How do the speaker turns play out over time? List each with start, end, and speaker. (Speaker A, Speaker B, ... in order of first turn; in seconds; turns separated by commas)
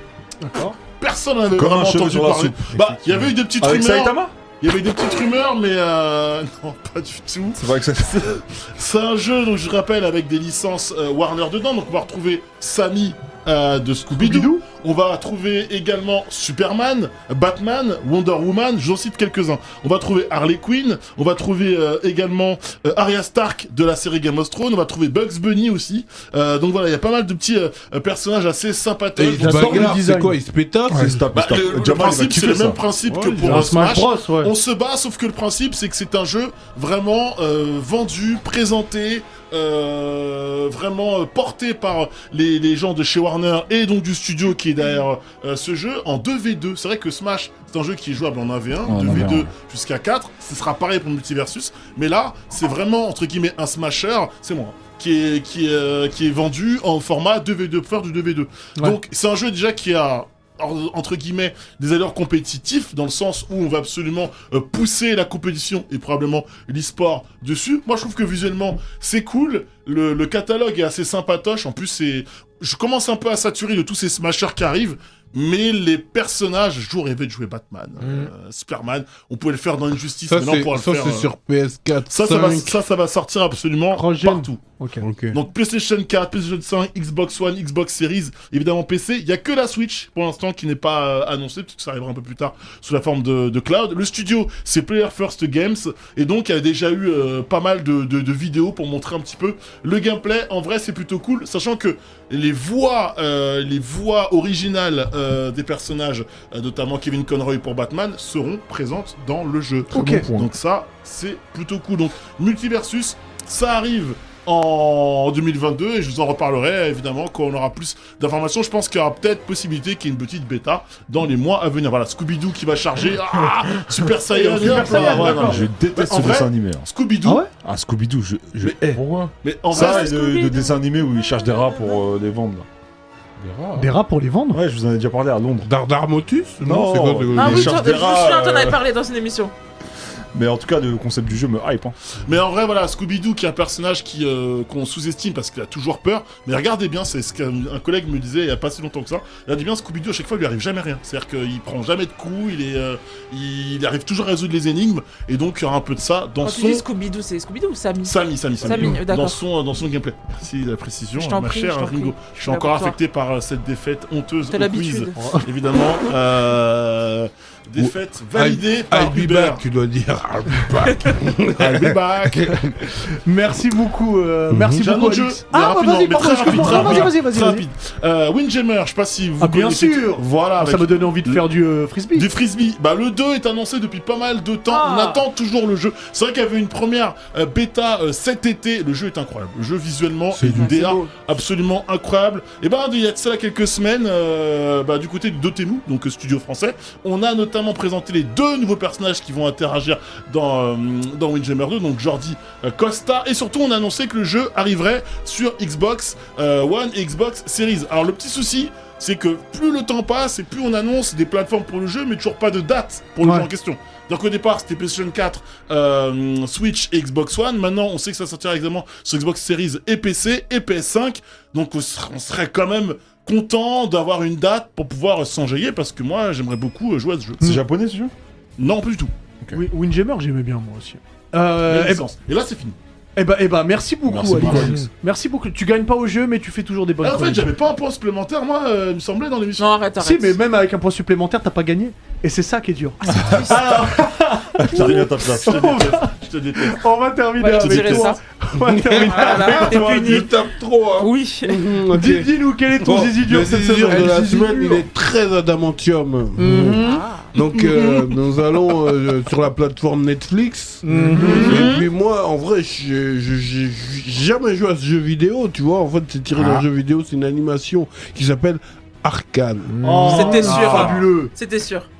Speaker A: 0.4-0.8, Speaker B: 0.8-29.9, Speaker C: 1.5-2.9, Speaker C: 3.5-4.3, Speaker C: 7.5-8.4, Speaker A: 14.1-14.7, Speaker D: 29.1-31.2, Speaker A: 29.4-30.4, Speaker C: 30.9-32.8, Speaker B: 31.3-81.3, Speaker D: 33.0-33.7, Speaker A: 33.4-34.5, Speaker C: 48.9-49.5, Speaker E: 78.0-78.3, Speaker D: 80.3-82.8, Speaker B: 82.1-84.7, Speaker A: 83.9-85.0, Speaker D: 85.0-85.4, Speaker B: 85.3-127.4, Speaker A: 109.9-110.2, Speaker E: 109.9-110.5, Speaker A: 124.3-125.7, Speaker C: 124.6-126.9, Speaker A: 127.2-127.5, Speaker C: 127.5-129.0, Speaker B: 128.7-130.2, Speaker E: 128.7-129.3, Speaker C: 129.7-132.7, Speaker F: 129.7-132.0, Speaker E: 133.4-133.9, Speaker A: 133.7-134.6, Speaker C: 134.5-135.7, Speaker D: 135.6-138.0, Speaker C: 136.6-138.8, Speaker F: 137.3-139.5, Speaker C: 140.3-141.9, Speaker B: 142.2-156.8, Speaker F: 156.4-159.4, Speaker B: 158.0-169.6, Speaker A: 158.7-158.9, Speaker F: 161.2-162.9, Speaker F: 164.5-165.2, Speaker A: 165.2-165.4, Speaker D: 167.8-172.7, Speaker B: 171.6-172.6, Speaker A: 173.2-177.7, Speaker D: 174.5-174.9, Speaker B: 174.8-181.4, Speaker E: 176.6-177.0, Speaker A: 179.4-182.3, Speaker B: 182.1-227.5, Speaker A: 184.7-185.2, Speaker D: 190.3-191.1, Speaker A: 213.2-213.5, Speaker C: 227.4-228.1, Speaker B: 228.6-229.1, Speaker A: 229.5-232.0, Speaker B: 231.6-232.8, Speaker A: 233.2-237.5, Speaker C: 234.1-234.9, Speaker B: 234.4-234.8, Speaker B: 237.0-239.7, Speaker F: 239.6-240.4, Speaker A: 240.0-250.3, Speaker F: 243.0-243.8, Speaker C: 243.1-243.6, Speaker C: 244.6-245.8, Speaker B: 245.2-246.8, Speaker F: 247.4-248.2, Speaker B: 247.4-248.1, Speaker D: 248.6-270.0, Speaker F: 249.0-250.4, Speaker F: 250.9-251.7, Speaker A: 251.9-254.2, Speaker E: 253.9-254.9, Speaker A: 256.4-257.1, Speaker F: 256.8-258.0, Speaker A: 260.8-261.7, Speaker E: 260.9-261.4, Speaker F: 261.3-261.9, Speaker C: 266.3-266.6, Speaker E: 269.7-270.7, Speaker A: 269.8-271.3, Speaker F: 270.1-271.9, Speaker B: 270.3-271.1